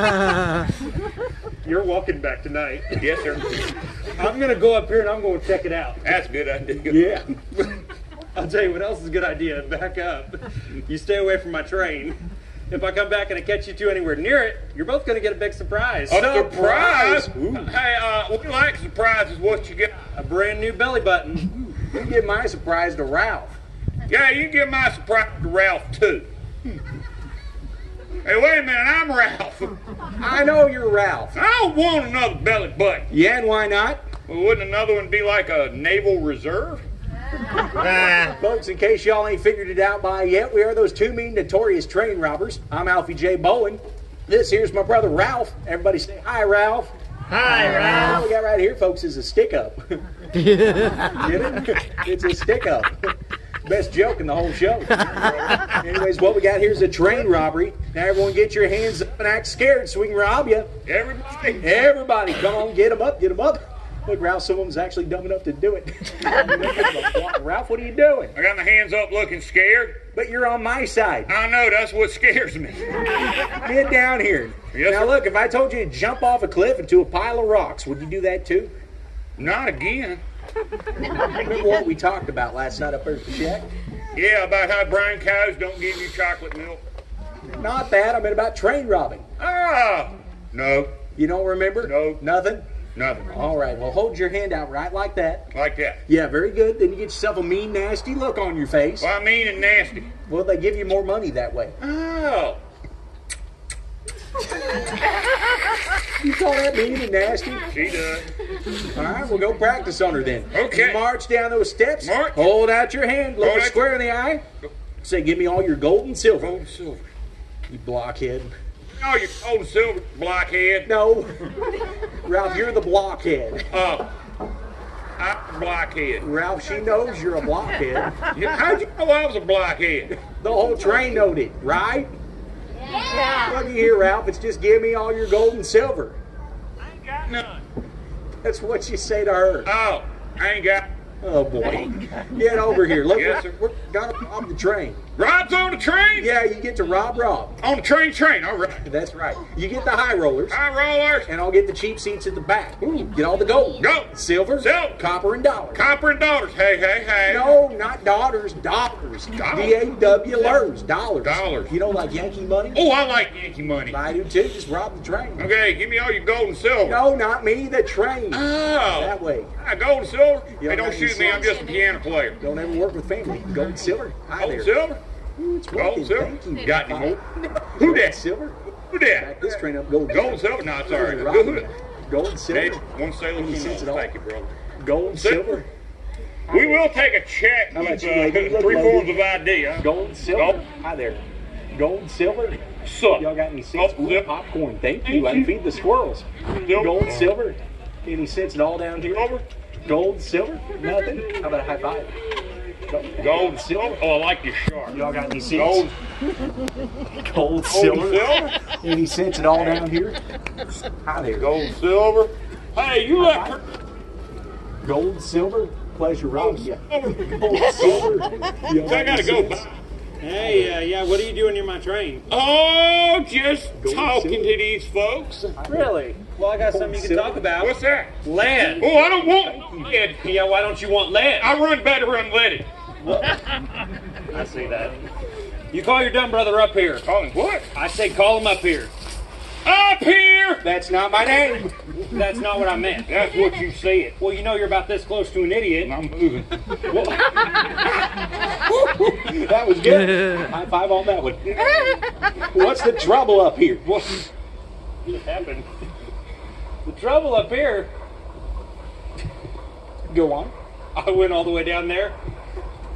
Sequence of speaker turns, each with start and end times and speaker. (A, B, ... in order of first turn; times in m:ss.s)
0:01.6-0:03.0 A
0:03.0-0:03.6 B
0:04.2-0:06.0 A
0:06.0-0:07.2 B
0:06.9-0:07.3 C
0:08.4-0:16.3 A
0:16.1-0:20.0 B
0:16.1-0:17.8 C
0:20.2-0:21.8 A
0:21.9-0:23.6 C
0:24.1-0:26.3 B
0:28.2-0:29.8 B
0:30.2-0:31.4 C
0:31.3-0:33.1 B
0:33.1-0:34.0 C
0:34.3-0:36.8 B
0:38.2-0:50.0 C
0:51.1-0:53.1 C
0:53.6-1:00.7 C
1:00.8-1:01.8 B
1:01.6-1:08.4 C
1:08.4-1:10.0 B
1:10.1-1:11.3 C
1:11.3-1:12.9 B
1:13.5-1:18.7 C
1:14.7-1:15.2 B
1:19.4-1:20.2 B
1:21.2-1:23.7 C
1:24.1-1:26.8 B
1:27.6-1:29.3 C
1:29.4-1:31.0 B
1:31.2-1:32.6 C
1:31.8-1:32.2 B
1:33.0-1:33.4 B
1:33.2-1:35.5 C
1:35.5-1:36.0 B
1:36.1-1:39.1 C
1:39.0-1:40.1 B
1:40.3-1:41.8 C
1:41.8-1:42.6 B
1:46.2-1:47.6 C
1:47.7-1:48.3 B
1:48.9-1:54.4 C
1:50.5-1:51.0 B
1:52.0-1:52.6 B
1:53.4-1:53.8 B
1:55.0-1:56.5 C
1:56.4-1:57.0 B
1:57.7-1:58.5 C
1:59.0-2:01.0 B
2:00.8-2:01.5 C
2:02.2-2:03.6 C
2:03.7-2:04.1 B
2:05.2-2:06.3 B
2:06.2-2:08.3 C
2:08.3-2:10.2 B
2:10.4-2:12.1 C
2:13.3-2:16.2 C
2:17.0-2:17.6 B
2:18.4-2:19.7 C
2:19.6-2:20.9 B
2:21.2-2:25.0 C
2:23.1-2:23.6 B
2:25.2-2:26.4 B
2:26.2-2:27.6 C
2:27.6-2:28.9 B
2:28.8-2:30.6 C
2:30.5-2:31.3 B
2:31.2-2:35.8 C
2:32.8-2:33.1 B
2:33.8-2:35.0 B
2:35.7-2:37.6 B
2:37.3-2:42.8 C
2:39.3-2:39.8 B
2:40.3-2:40.6 B
2:41.2-2:41.8 B
2:42.7-2:44.0 B
2:43.9-2:45.5 C
2:45.4-2:47.0 B
2:46.8-2:49.5 C
2:48.3-2:52.4 B
2:50.6-2:51.6 C
2:52.4-2:54.8 C
2:54.4-2:55.0 B
2:55.4-2:58.6 C
2:55.7-2:57.2 B
2:57.8-2:58.2 B
2:58.9-3:01.7 B
2:59.1-3:02.8 C
3:02.5-3:04.6 B
3:03.4-3:04.1 C
3:04.8-3:05.7 C
3:05.1-3:05.6 B
3:06.5-3:06.9 C
3:06.5-3:10.6 B
3:07.7-3:09.2 C
3:09.8-3:11.2 C
3:11.7-3:12.6 C
3:12.8-3:14.3 B
3:13.2-3:16.2 C
3:15.0-3:15.6 B
3:16.6-3:17.4 B
3:16.8-3:19.3 C
3:19.0-3:19.4 B
3:19.8-3:22.1 C
3:22.9-3:24.0 C
3:23.2-3:25.0 B
3:24.9-3:25.9 C
3:25.5-3:25.9 B
3:27.1-3:30.2 C
3:27.6-3:28.6 B
3:31.0-3:31.6 C
3:31.4-3:33.7 B
3:33.1-3:33.6 C
3:34.8-3:39.6 C
3:36.3-3:38.2 B
3:38.8-3:39.8 B
3:40.2-3:42.2 A
3:40.4-3:40.7 C
3:42.3-3:45.6 B
3:43.8-3:44.5 C
3:45.6-3:45.9 C
3:45.6-3:48.8 A
3:46.7-3:47.5 C
3:47.6-3:48.1 B
3:48.8-3:50.2 B
3:48.8-3:49.9 C
3:50.2-3:51.5 A
3:51.4-3:52.7 B
3:53.0-3:53.3 A
3:54.3-3:55.0 A
3:55.7-3:57.1 A
3:57.0-3:57.7 B
3:57.7-3:58.9 A
3:59.6-4:00.7 B
4:00.6-4:01.7 C
4:01.9-4:03.1 A
4:03.1-4:04.2 B
4:04.2-4:05.9 A
4:05.8-4:06.5 B
4:06.9-4:07.4 A
4:08.7-4:11.8 C
4:12.5-4:13.8 C
4:13.8-4:14.2 A
4:15.1-4:15.7 A
4:16.8-4:17.9 A
4:20.1-4:20.5 C
4:21.0-4:22.2 A